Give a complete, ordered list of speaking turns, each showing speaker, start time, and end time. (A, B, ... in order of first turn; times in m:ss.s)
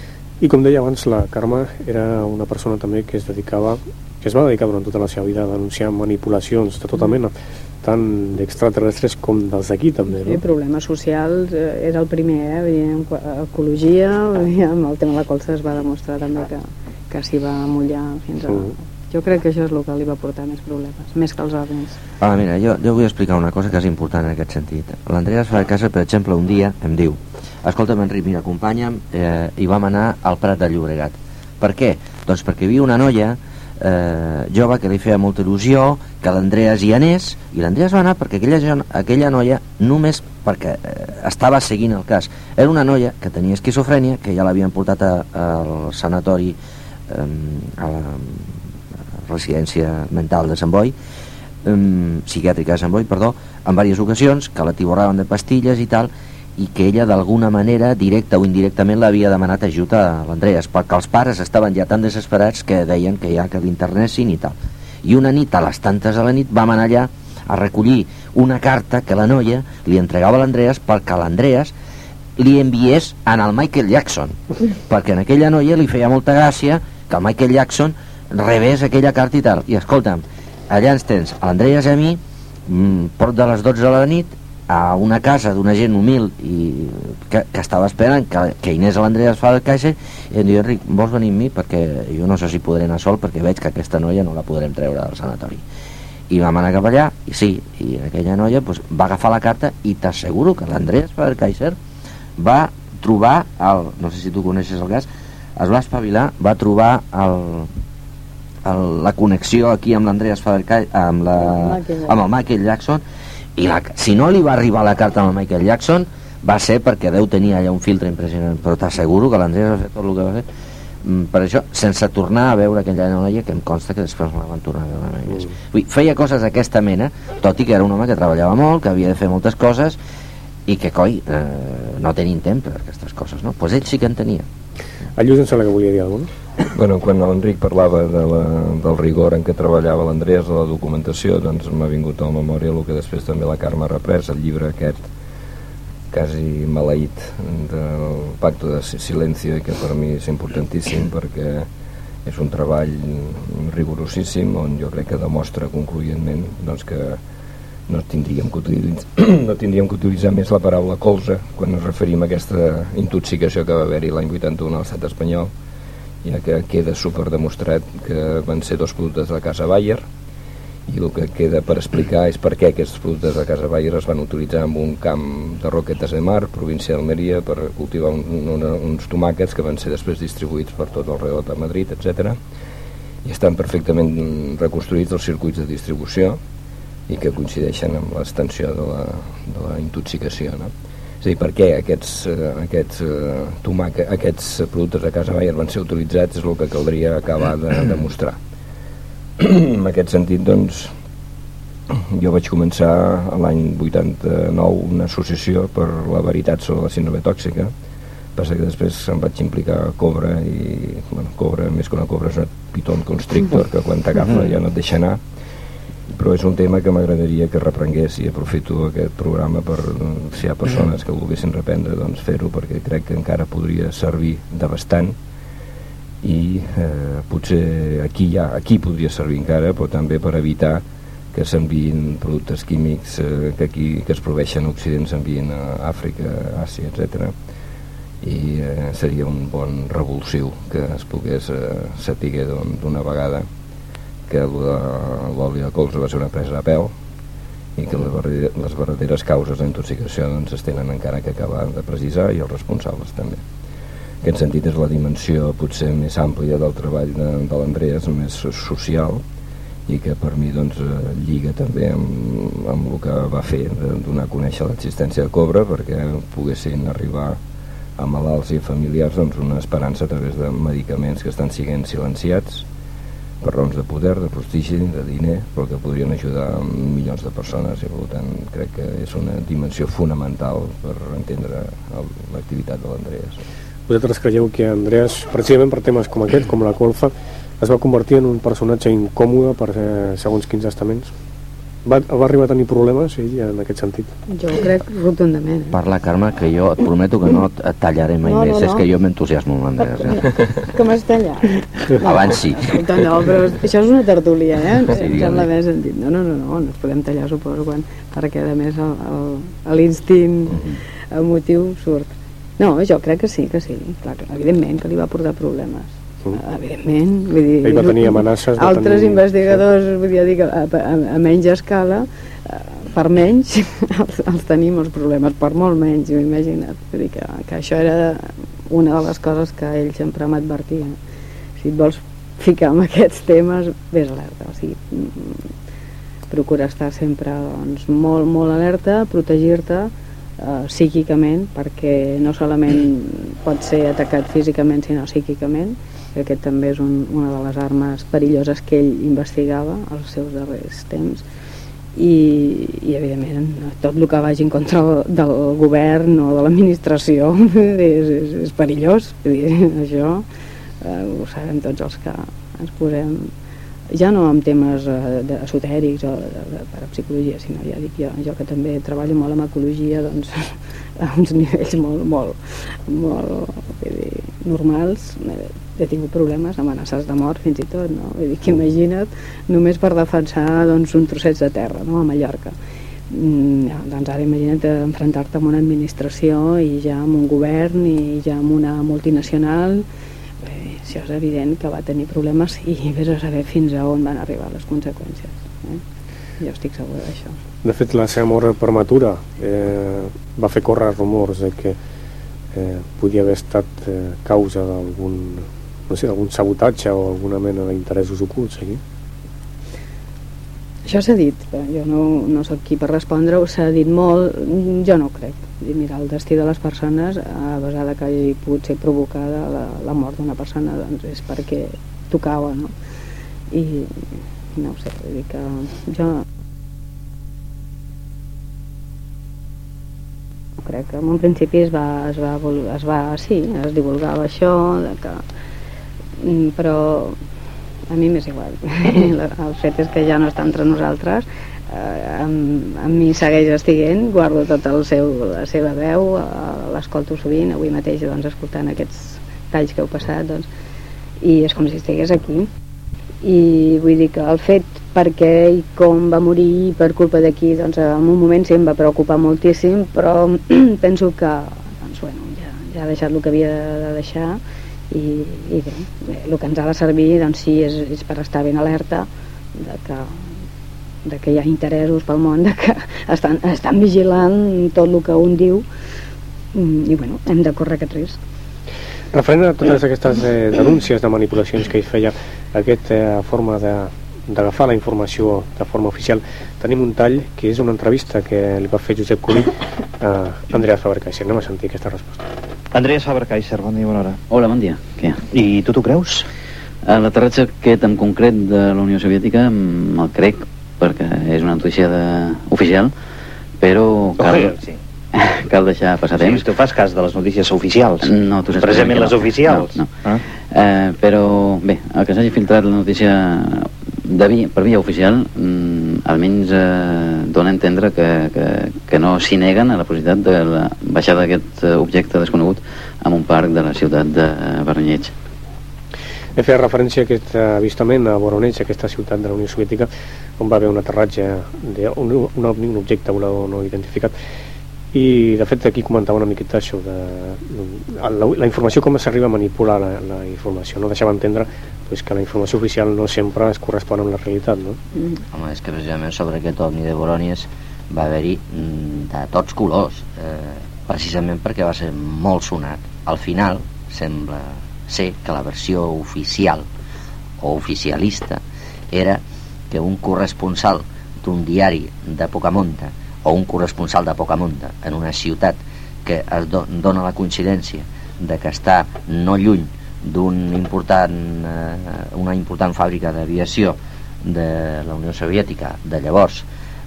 0:00.4-0:10.4 A
0:10.1-0:22.0 B
0:22.2-0:48.6 C
0:49.2-0:51.0 C
0:51.6-1:11.7 C
1:12.4-1:35.6 C
1:36.3-1:41.8 C
1:42.4-1:47.7 C
1:48.6-1:53.0 C
1:51.6-1:52.1 B
1:53.6-2:00.5 C
2:01.0-2:10.0 C
2:10.6-2:14.5 C
2:15.2-2:16.3 A
2:16.7-2:25.1 D
2:26.1-2:31.7 D
2:32.2-2:37.2 D
2:37.9-2:45.5 D
2:46.2-2:50.0 D
2:50.9-3:02.4 D
3:03.2-3:06.4 D
3:07.1-3:18.4 D
3:19.4-3:20.9 D
3:21.9-3:27.7 D
3:28.4-3:35.2 D
3:36.1-3:45.2 D
3:46.2-3:57.3 D
3:58.2-4:03.4 D
4:04.3-4:06.9 D
4:07.8-4:13.4 D
4:14.2-4:19.2 D
4:19.9-4:27.4 D
4:28.0-4:32.6 D
4:33.4-4:43.4 D
4:43.9-4:51.1 A
4:51.8-4:54.1 A
4:54.3-4:55.8 B
4:55.7-5:00.3 C
4:58.2-4:58.8 B
5:00.1-5:31.0 B
5:02.0-5:02.6 C
5:04.9-5:05.5 C
5:17.6-5:19.6 A
5:31.6-5:35.4 B
5:36.3-5:51.2 B
5:52.0-6:00.2 B
6:00.8-6:03.3 B
6:03.9-6:22.5 B
6:23.1-6:29.8 B
6:30.4-6:35.8 B
6:36.4-6:37.4 B
6:37.6-6:41.8 A
6:42.5-6:48.8 A
6:50.8-7:02.7 B
7:03.5-7:04.0 B
7:04.6-7:06.2 B
7:10.6-7:15.2 B
7:16.2-7:17.2 B
7:17.9-7:30.5 B
7:31.2-7:32.5 B
7:33.2-7:44.4 B
7:44.9-7:50.2 B
7:51.0-7:55.6 B
7:56.5-7:58.2 B
7:59.1-8:12.3 A
8:12.7-8:14.2 E
8:14.3-8:15.2 F
8:15.3-8:16.3 E
8:16.8-8:22.9 F
8:23.6-8:24.6 F
8:24.2-8:24.7 E
8:25.2-8:26.5 F
8:26.2-8:30.2 E
8:28.0-8:45.1 F
8:46.4-8:54.1 A
8:54.9-9:04.8 A
9:05.3-9:16.7 C
9:17.4-9:36.5 C